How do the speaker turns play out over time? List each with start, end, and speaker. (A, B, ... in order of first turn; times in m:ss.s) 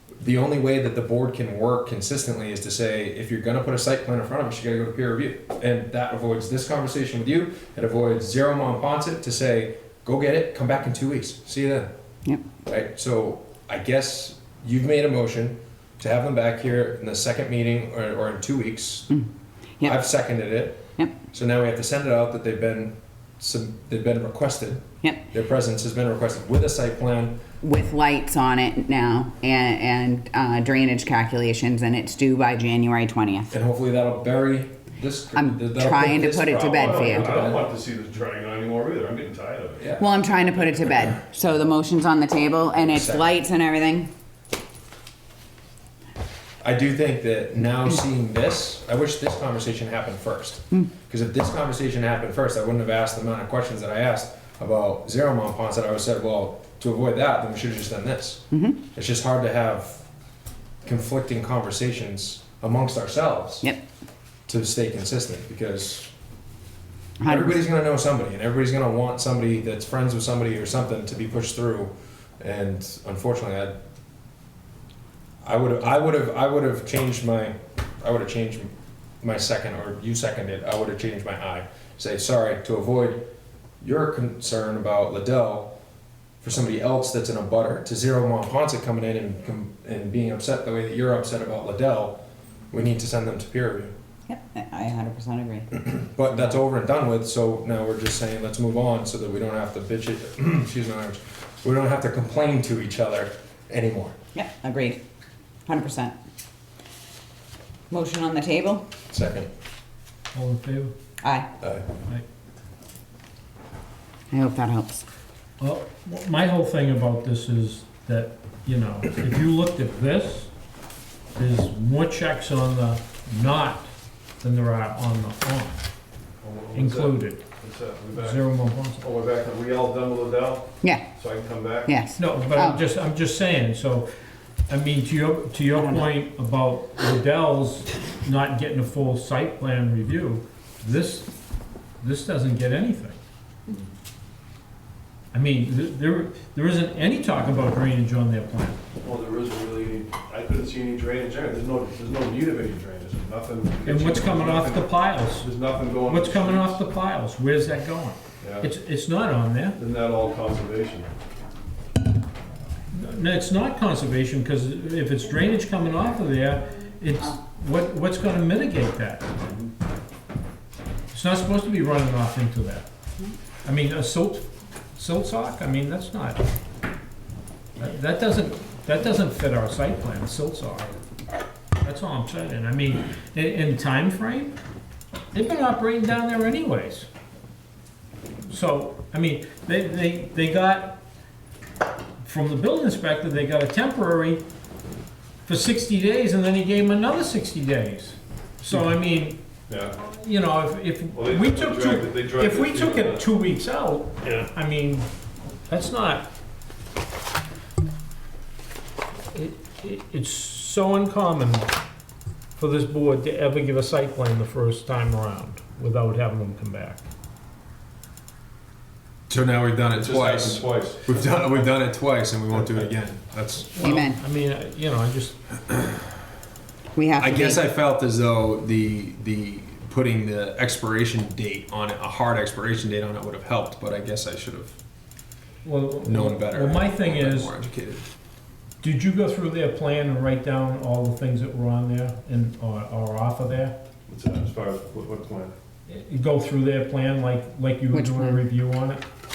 0:00.2-0:11.9 A
0:12.7-0:19.1 A
0:19.8-0:27.4 A
0:27.6-0:33.5 B
0:33.5-0:37.6 A
0:35.3-0:37.5 B
0:36.7-0:39.9 C
0:39.8-0:41.0 A
0:40.0-0:44.1 B
0:42.9-0:43.3 A
0:46.6-1:00.1 A
0:58.5-0:58.8 B
1:00.8-1:03.7 A
1:04.5-1:06.1 A
1:07.2-1:07.6 B
1:07.3-1:13.8 A
1:15.4-1:18.7 A
1:19.2-1:23.3 A
1:23.8-1:25.7 A
1:26.4-1:33.9 A
1:34.3-1:35.7 B
1:35.8-1:44.2 A
1:36.3-1:36.6 B
1:44.4-1:45.0 B
1:45.7-1:46.2 B
1:47.9-1:48.9 B
1:49.1-1:49.5 A
1:50.3-1:50.9 D
1:51.2-1:51.5 B
1:54.3-1:55.0 B
1:55.6-2:00.5 D
2:01.4-2:05.8 D
2:06.4-2:08.4 C
2:06.7-2:07.4 D
2:08.2-2:09.0 D
2:09.0-2:12.0 C
2:11.9-2:12.8 B
2:12.2-2:14.1 D
2:14.7-2:21.3 D
2:15.8-2:16.1 B
2:22.0-2:23.2 D
2:25.3-2:28.8 D
2:29.0-2:36.8 C
2:33.8-2:35.5 D
2:36.1-2:39.8 D
2:38.4-2:38.7 C
2:39.8-2:41.1 C
2:42.9-2:49.3 D
2:49.4-2:49.7 C
2:51.1-2:52.9 D
2:53.6-2:56.4 D
2:57.8-3:01.0 D
3:01.8-3:04.6 D
3:05.3-3:07.1 D
3:08.5-3:11.0 D
3:12.2-3:14.4 D
3:15.5-3:19.4 D
3:19.7-3:20.0 C
3:20.0-3:25.1 D
3:21.1-3:23.3 C
3:25.7-3:26.3 D
3:29.3-3:31.7 D
3:32.6-3:37.0 D
3:39.3-3:43.8 A
3:39.9-3:41.6 C
3:43.8-3:45.4 D
3:43.8-3:44.2 B
3:47.0-3:47.6 B
3:47.2-3:54.8 A
3:55.6-3:57.5 D
3:56.0-3:58.1 A
3:58.8-4:03.8 D
4:04.1-4:05.5 C
4:05.9-4:09.0 D
4:07.9-4:08.4 B